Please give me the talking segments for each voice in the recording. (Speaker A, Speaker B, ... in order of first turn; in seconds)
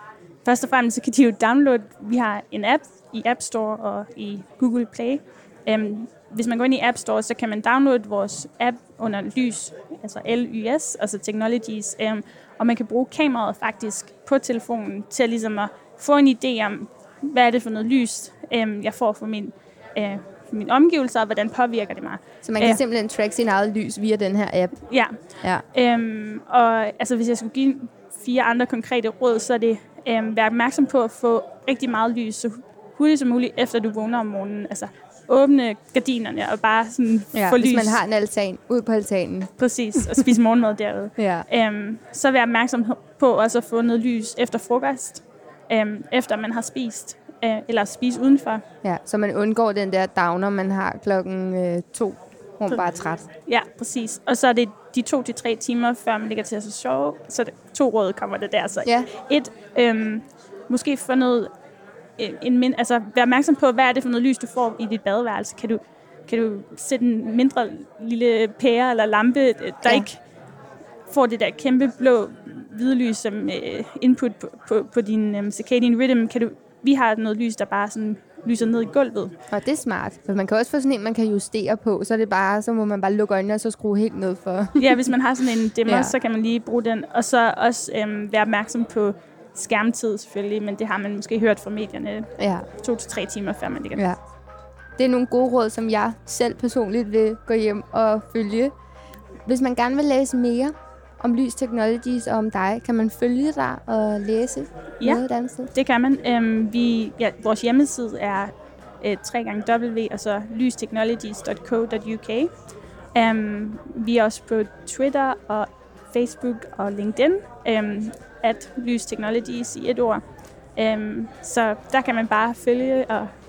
Speaker A: 0.5-22.8, 24.9-25.1, 25.7-38.0, 39.6-48.6, 53.5-61.5, 62.2-70.2, 71.1-79.3, 84.8-94.0, 105.7-112.5, 113.2-120.2, 120.8-123.3
Speaker B: 22.4-24.9, 37.3-39.5, 41.2-41.5, 48.8-53.2, 79.5-85.1, 85.8-86.1, 92.4-92.7, 95.0-98.7, 99.5-105.7